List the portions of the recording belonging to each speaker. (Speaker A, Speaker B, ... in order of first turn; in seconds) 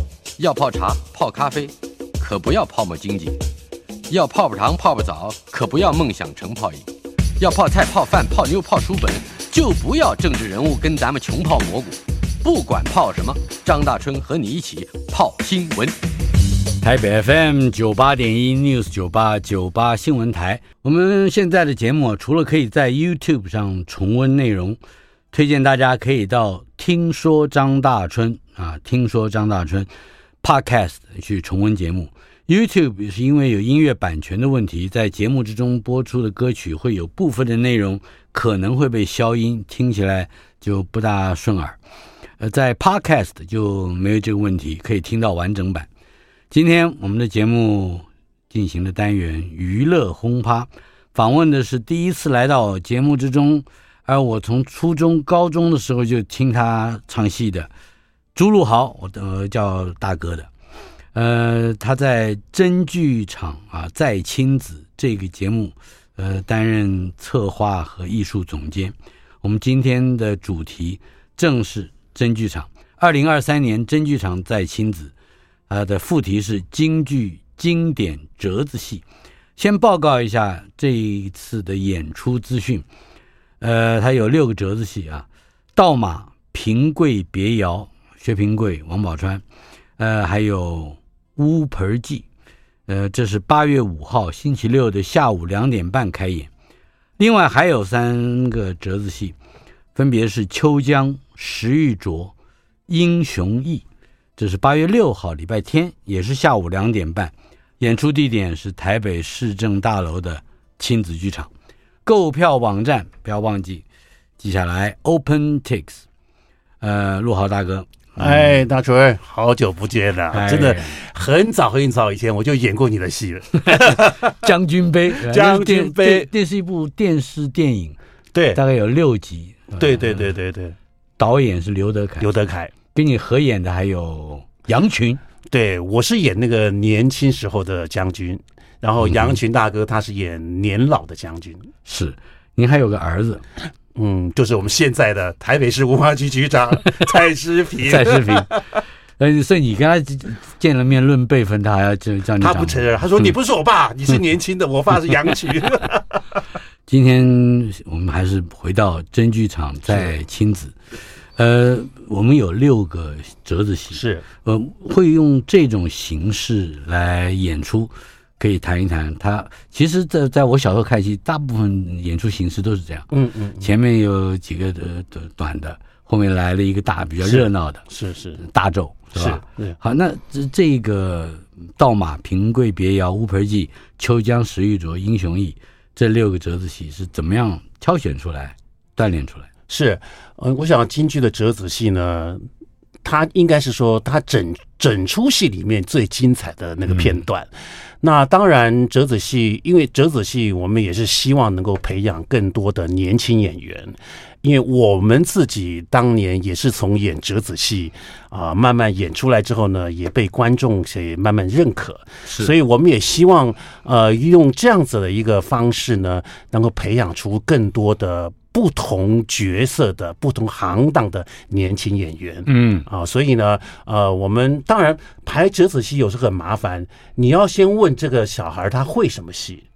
Speaker A: 0.4-3.4, 4.1-6.9, 7.4-15.9
Speaker B: 16.8-24.8, 25.3-29.9, 30.4-41.8, 42.4-45.9, 46.5-57.7, 58.3-60.5, 61.1-75.1, 75.7-79.0, 79.6-82.8, 83.6-89.4, 90.0-92.2, 92.9-96.5, 97.2-99.3, 99.9-102.3, 102.9-103.8, 104.4-111.5, 112.0-113.8, 114.4-116.0, 116.8-118.6, 120.3-121.0, 123.7-128.0, 128.5-130.3, 131.2-132.3, 132.9-135.2, 139.0-139.4, 141.8-143.4, 147.8-148.5, 149.2-153.3, 156.9-160.7, 161.3-173.1, 173.6-177.8, 178.4-189.5, 196.9-197.2, 212.2-212.5, 222.5-222.9
Speaker C: 118.2-124.5, 125.1-126.3, 128.3-128.6, 129.8-130.8, 132.2-132.7, 135.5-141.7, 143.9-148.6, 152.4-156.2, 159.9-160.1, 163.9-164.2, 173.1-173.7, 177.2-178.4, 179.1-179.8, 189.7-192.4, 193.0-197.5, 198.0-229.7